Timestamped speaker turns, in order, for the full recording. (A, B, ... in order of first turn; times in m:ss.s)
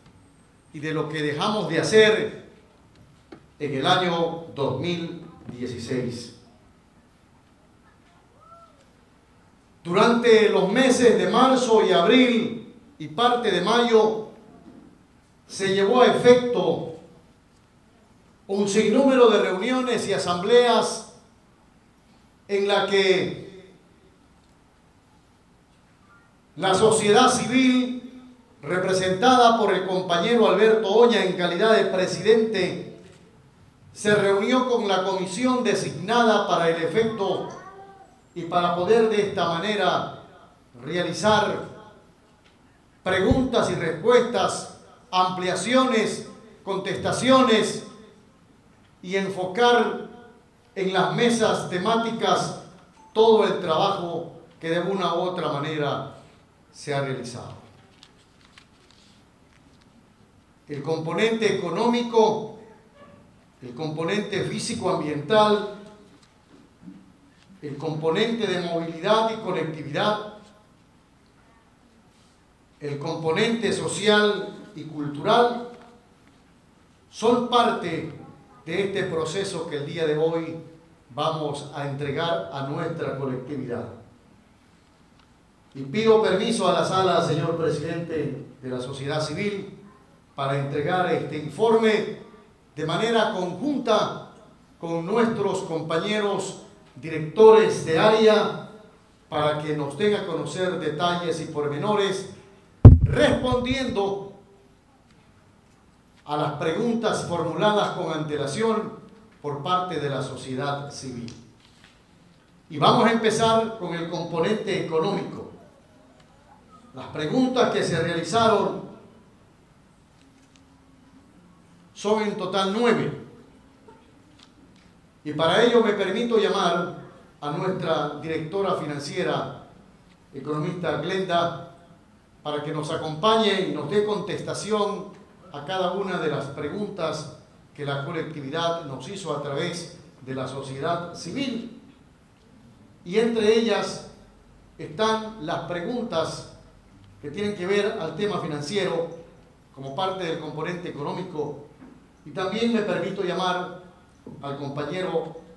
0:00.7-0:02.4 A
0:03.6-0:06.3 A
0:09.8-0:14.2 A
0:15.5-0:16.9 A
0:18.5-0:21.1 A
0:22.5-0:23.5 A
0:26.6-0:28.0 A
0:28.6-0:32.9 A
0:33.9-0:37.5 A
0:38.3-0:40.1 A
0:40.7-0:41.6 A
0:43.0-0:47.8 A
0:49.0-0:50.0 A
0:50.8-0:52.6 A
0:53.1-0:56.0 A
0:56.7-0:57.7 A
1:00.7-1:02.5 A
1:03.6-1:05.7 A
1:07.6-1:10.3 A
1:12.8-1:15.6 A
1:17.1-1:18.1 A
1:18.6-1:23.9 A
1:25.7-1:29.7 A
1:30.4-1:32.1 A
1:32.7-1:34.2 A
1:34.8-1:38.6 A
1:39.3-1:42.3 A
1:43.0-1:44.2 A
1:46.2-1:51.4 A
1:52.7-1:55.5 A
1:56.9-1:58.8 A
2:01.9-2:03.2 A
2:05.2-2:09.5 A
2:10.3-2:11.6 A
2:12.4-2:21.7 A
2:23.0-2:24.1 A
2:24.8-2:26.5 A
2:27.2-2:29.1 A
2:29.7-2:31.6 A
2:32.2-2:33.8 A
2:34.4-2:35.3 A